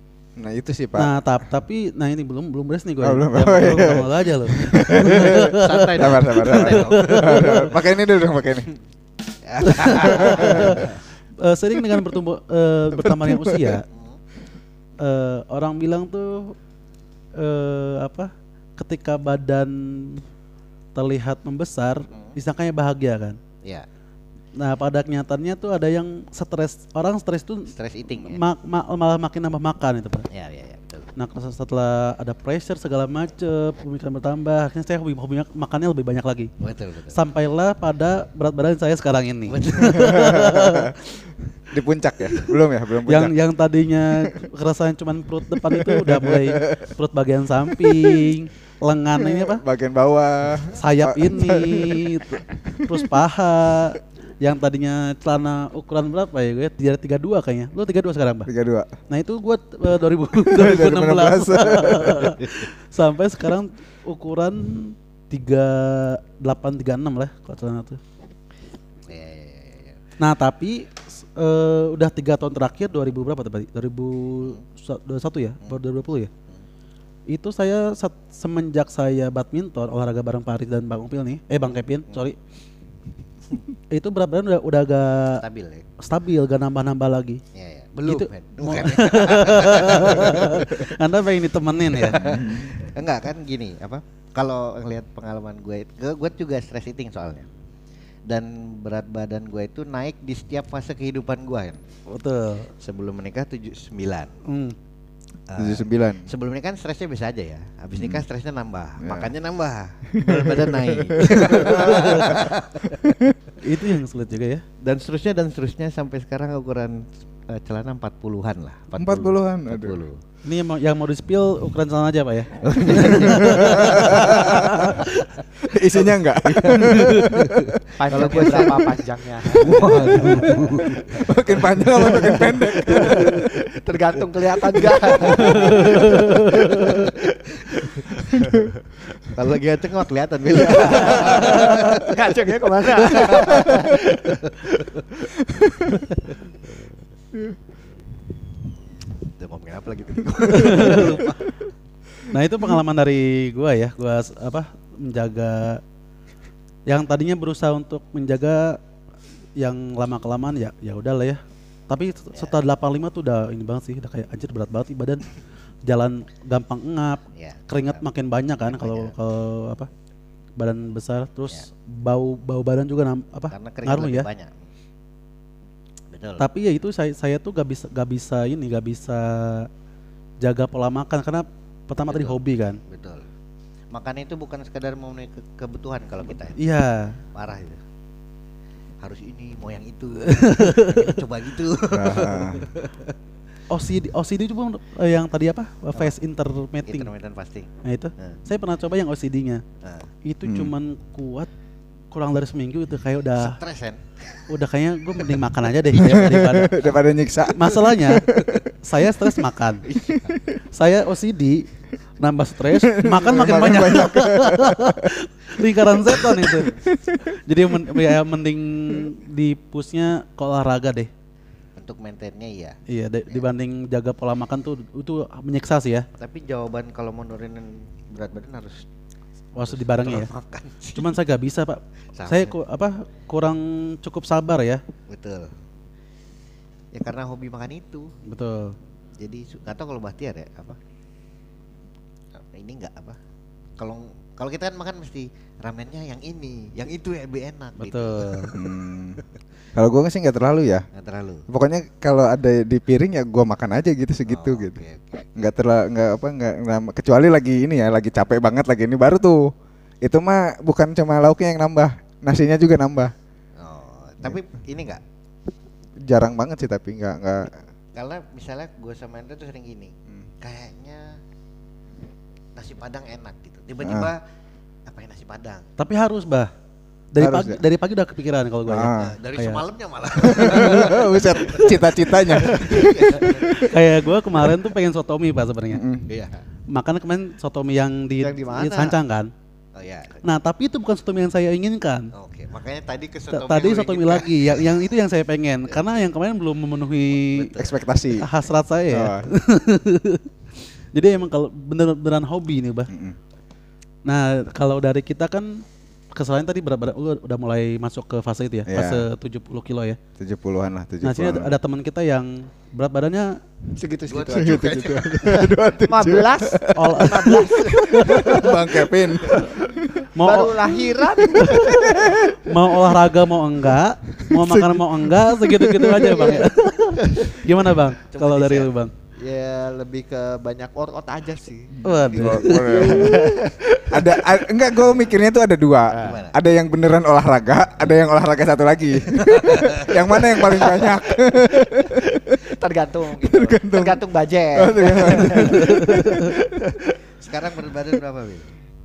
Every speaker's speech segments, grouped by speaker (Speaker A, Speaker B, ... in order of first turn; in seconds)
Speaker A: 0.4-1.1, 3.0-8.7, 9.7-10.9, 11.8-12.1, 12.9-13.8, 39.9-43.4, 45.7-46.9, 47.8-48.3, 49.2-53.1, 58.5-58.9, 60.5-62.4, 92.1-92.9, 105.6-106.3, 108.0-108.2, 109.0-109.3, 110.1-113.3, 119.0-120.0, 122.9-124.9, 125.7-127.8, 129.7-133.5, 135.2-135.7, 145.5-146.0, 150.8-151.1, 191.9-192.7, 200.4-200.7, 206.0-208.7, 210.0-210.5, 212.8-218.2, 248.5-249.2, 249.8-250.9, 251.5-254.8, 255.4-259.5, 260.0-263.1, 266.1-267.6, 273.8-274.1, 277.2-277.6, 278.7-279.2, 280.2-283.7, 285.7-286.1, 297.6-298.3, 298.9-299.3, 302.9-303.2, 308.7-309.1, 310.2-311.6, 314.3-320.1, 321.2-322.5, 324.2-326.4, 331.8-342.4, 343.2-344.0, 344.6-346.3
Speaker B: 1.0-7.7, 9.7-13.9, 15.0-16.6, 17.4-20.2, 20.9-23.4, 24.6-30.3, 31.2-36.5, 37.1-40.9, 43.1-49.6, 50.8-58.5, 59.1-68.0, 70.2-76.3, 77.3-82.4, 83.9-85.4, 86.0-87.4, 88.0-92.5, 102.1-102.7, 104.5-104.8, 111.7-112.4, 113.6-114.6, 120.5-125.3, 126.5-127.5, 128.2-128.6, 129.7-130.9, 135.5-137.0, 150.5-151.2, 152.3-155.8, 156.9-158.8, 159.6-165.2, 165.9-169.9, 170.6-174.3, 176.4-179.7, 180.4-182.8, 186.6-187.2, 190.3-191.1, 193.7-197.1, 197.8-199.6, 200.2-201.5, 202.1-203.6, 204.5-206.8, 207.5-208.3, 208.8-209.9, 210.7-211.7, 212.2-221.1, 222.9-226.1, 229.6-230.3, 230.9-234.8, 238.3-238.8, 247.8-248.6, 275.8-276.5, 277.1-279.6, 280.4-280.9, 282.6-285.8, 286.7-289.3, 290.2-292.1, 293.3-297.5, 298.2-300.3, 300.9-302.9, 304.1-310.0, 311.0-313.4, 316.8-317.4, 320.1-320.6, 321.4-328.9, 331.8-333.1, 345.4-346.2
Speaker C: 4.9-7.8, 9.4-11.0, 13.9-14.2, 22.1-22.4, 27.7-28.4, 30.3-31.1, 36.6-37.2, 39.5-40.4, 69.1-70.0, 85.4-85.9, 87.5-91.0, 92.0-97.5, 98.2-101.8, 102.8-104.4, 105.5-113.1, 114.8-120.2, 122.6-125.1, 127.9-133.2, 134.8-136.0, 139.3-142.2, 142.9-144.0, 149.2-151.7, 167.4-168.0, 168.7-169.2, 173.5-174.6, 176.1-176.5, 182.1-183.3, 183.9-186.6, 187.3-187.8, 189.0-193.1, 196.8-198.4, 199.8-200.1, 203.4-204.4, 209.9-210.3, 221.8-222.8, 226.2-228.8, 229.6-231.2, 232.1-232.6, 235.1-235.6, 236.9-238.1, 239.2-240.8, 242.3-243.2, 243.8-248.7, 250.9-251.5, 254.3-255.5, 263.6-265.0, 267.9-271.2, 272.6-274.2, 274.9-275.7, 278.9-283.8, 286.1-286.5, 289.8-290.3, 292.1-294.9, 295.7-295.9, 297.1-297.8, 314.1-315.8, 336.0-336.4, 347.2-348.5
Speaker D: 128.0-130.0, 132.0-138.7, 140.5-145.3, 288.2-289.0, 313.8-321.9, 328.1-335.0, 335.9-336.2, 340.2-346.9